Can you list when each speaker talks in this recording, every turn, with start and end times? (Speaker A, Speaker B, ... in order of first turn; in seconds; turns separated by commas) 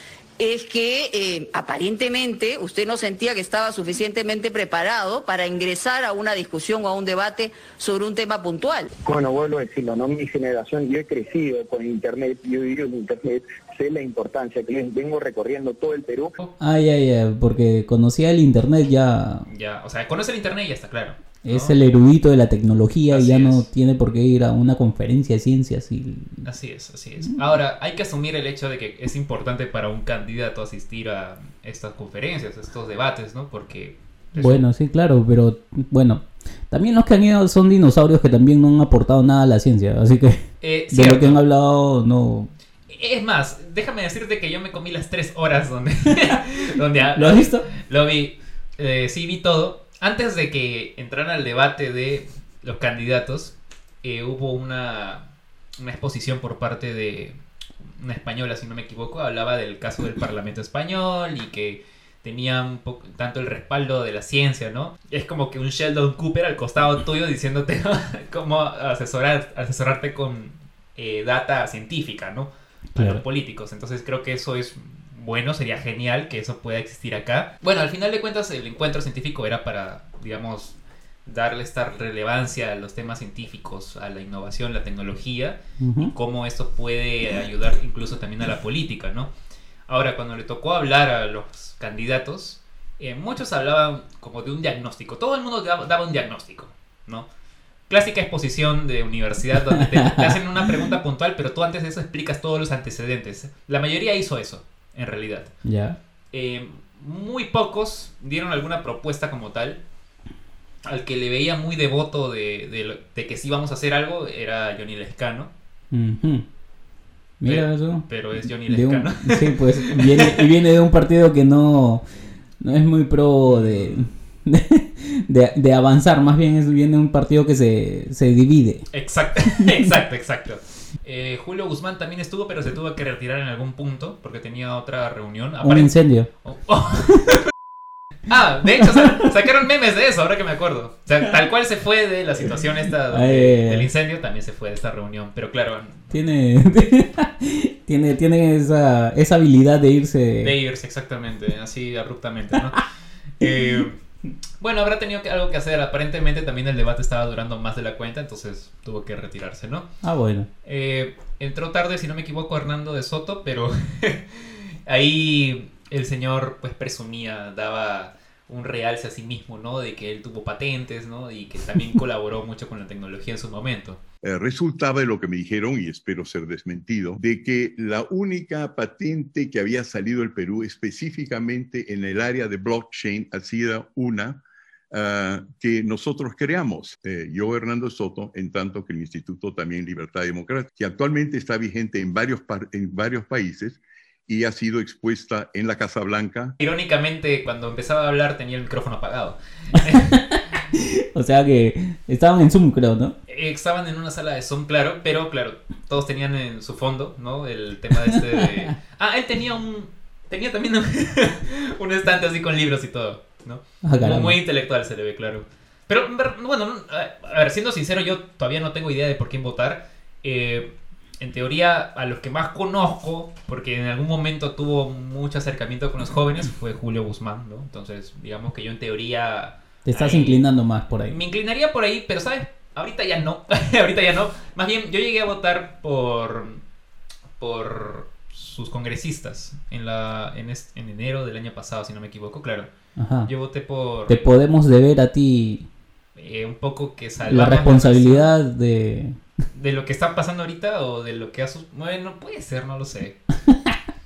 Speaker A: 0.4-8.9, Speaker B: 9.1-16.3, Speaker C: 16.6-19.5, Speaker D: 19.5-21.8, Speaker C: 21.4-26.4, Speaker D: 23.1-23.7, Speaker D: 26.4-34.6, Speaker C: 34.4-42.5, Speaker D: 40.6-41.4, Speaker D: 42.9-55.2, Speaker C: 47.1-47.7, Speaker D: 55.8-57.4, Speaker D: 57.9-89.3, Speaker C: 72.9-73.2, Speaker C: 85.8-86.1, Speaker D: 89.9-97.3, Speaker D: 97.9-105.5, Speaker C: 99.7-100.4, Speaker C: 105.6-106.0, Speaker D: 106.3-109.8, Speaker D: 110.8-115.5, Speaker C: 115.9-116.5, Speaker C: 117.4-122.0, Speaker D: 117.5-120.5, Speaker C: 122.6-128.9, Speaker D: 123.5-124.1, Speaker D: 128.9-135.9, Speaker C: 129.5-129.9, Speaker C: 135.6-136.3, Speaker D: 136.4-137.5, Speaker D: 138.3-146.1, Speaker C: 143.0-143.9, Speaker C: 146.1-150.6, Speaker D: 150.4-152.8, Speaker D: 153.4-154.0, Speaker D: 154.6-159.9, Speaker C: 160.0-160.5, Speaker D: 160.6-174.0, Speaker E: 174.2-184.4, Speaker E: 184.9-196.5, Speaker D: 196.6-200.2, Speaker C: 199.8-203.2, Speaker D: 203.3-230.4, Speaker C: 208.0-208.7, Speaker C: 213.8-214.4, Speaker C: 229.8-231.2, Speaker D: 231.1-236.6, Speaker D: 237.4-242.7, Speaker C: 243.0-243.3, Speaker D: 243.3-244.2, Speaker C: 244.1-245.7, Speaker D: 246.2-248.3, Speaker C: 247.2-249.2, Speaker D: 249.5-253.2